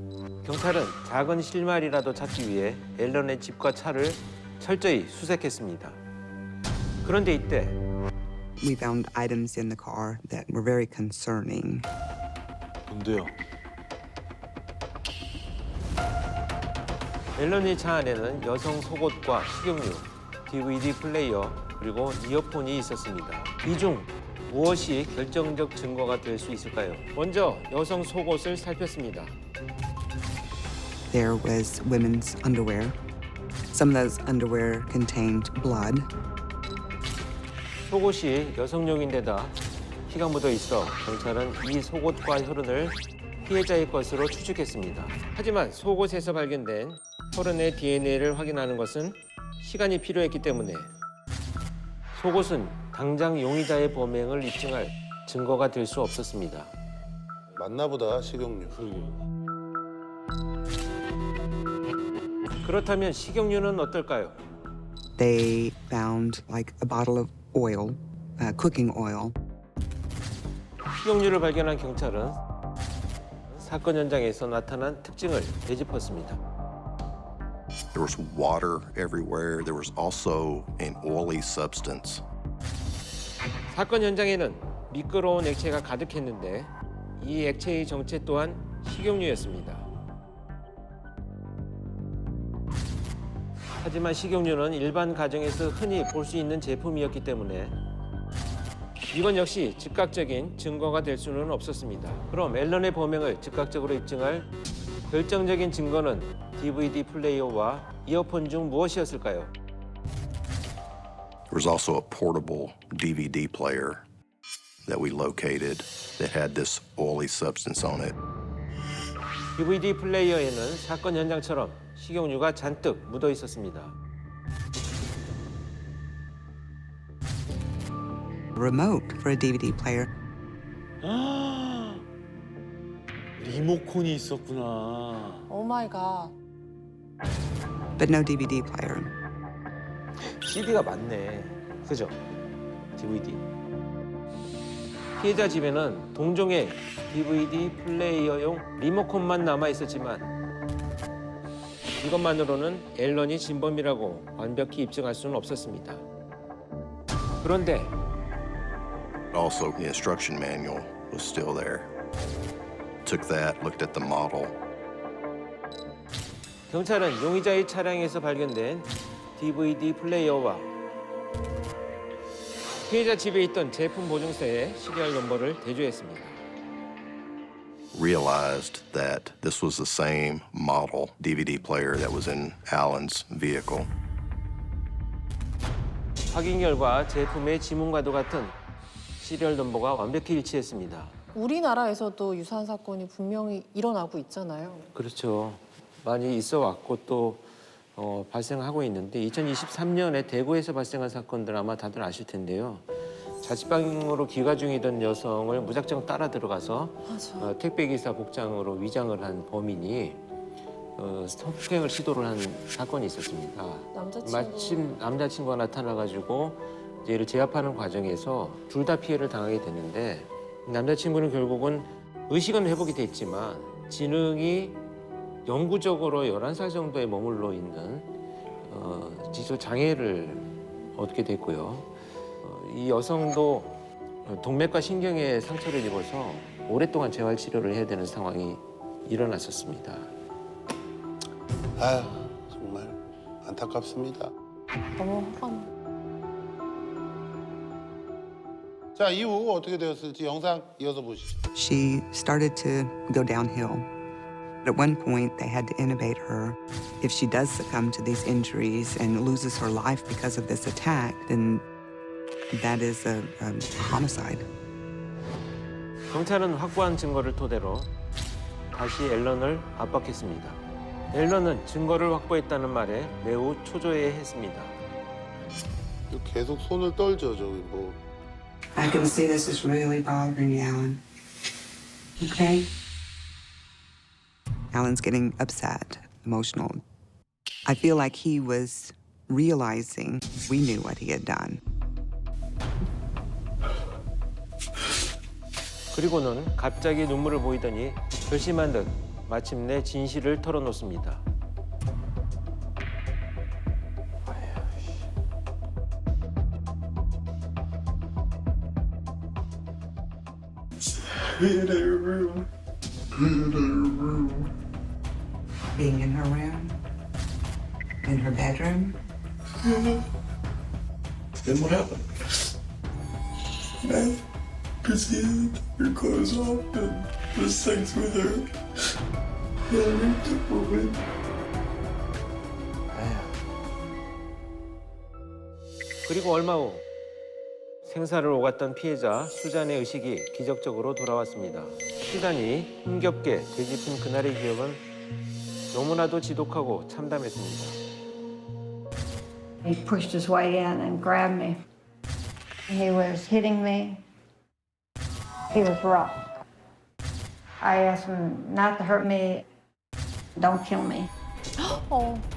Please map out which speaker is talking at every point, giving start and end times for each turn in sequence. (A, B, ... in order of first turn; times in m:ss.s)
0:00.4-0:06.0 A
0:07.0-0:07.8 A
0:08.6-0:11.8 B
0:12.9-0:13.4 C
0:17.4-0:29.3 A
0:31.1-0:33.0 B
0:33.7-0:36.1 B
0:37.9-0:39.6 A
0:40.1-0:50.9 A
0:52.1-0:56.7 A
0:57.6-0:59.1 D
1:02.6-1:04.4 A
1:05.2-1:09.3 B
1:11.0-1:12.4 A
1:13.6-1:16.4 A
1:17.9-1:22.2 E
1:23.7-1:29.9 A
1:33.8-1:37.8 A
1:39.1-1:44.5 A
1:45.1-1:49.5 A
1:51.5-1:54.0 E
1:54.8-1:58.2 E
1:59.6-2:04.0 A
2:08.6-2:10.1 B
2:11.0-2:12.0 C
2:13.4-2:15.4 C
2:15.5-2:16.4 F
2:18.0-2:19.1 B
2:20.4-2:22.2 A
2:23.0-2:23.4 A
2:25.2-2:30.3 A
2:32.0-2:36.0 A
2:37.4-2:37.9 A
2:39.3-2:41.9 E
2:43.0-2:44.6 E
2:46.7-2:50.7 A
2:52.9-2:56.4 A
2:57.9-3:03.9 E
3:06.3-3:08.5 A
3:09.2-3:11.2 A
3:11.3-3:14.9 F
3:14.9-3:22.8 A
3:23.4-3:30.2 A
3:27.1-3:27.5 F
3:31.0-3:44.8 A
3:33.9-3:34.9 F
3:45.5-3:48.1 A
3:48.7-3:51.9 A
3:52.4-4:00.1 A
4:01.8-4:04.3 D
4:05.0-4:05.7 F
4:09.0-4:11.4 D
4:11.6-4:13.9 B
4:14.6-4:21.6 B
4:22.5-4:24.5 B
4:26.1-4:27.9 A
4:28.7-4:30.6 A
4:31.1-4:34.7 A
4:36.1-4:38.0 D
4:38.8-4:41.0 B
4:42.2-4:42.7 B
4:44.7-4:46.8 B
4:47.7-4:51.6 B
4:55.9-5:01.2 A
5:11.2-5:12.5 C
5:15.8-5:16.8 B
5:18.0-5:19.0 B
5:19.6-5:20.0 C
5:21.4-5:22.2 C
5:23.8-5:24.2 C
5:24.8-5:28.4 C
5:29.7-5:31.0 C
5:32.9-5:33.4 C
5:36.1-5:36.8 A
5:37.8-5:44.8 A
5:45.7-5:47.8 A
5:49.6-5:51.6 G
5:52.7-5:54.0 G
5:55.5-5:56.2 G
5:57.6-5:59.4 G
6:00.4-6:01.1 G
6:01.6-6:02.3 F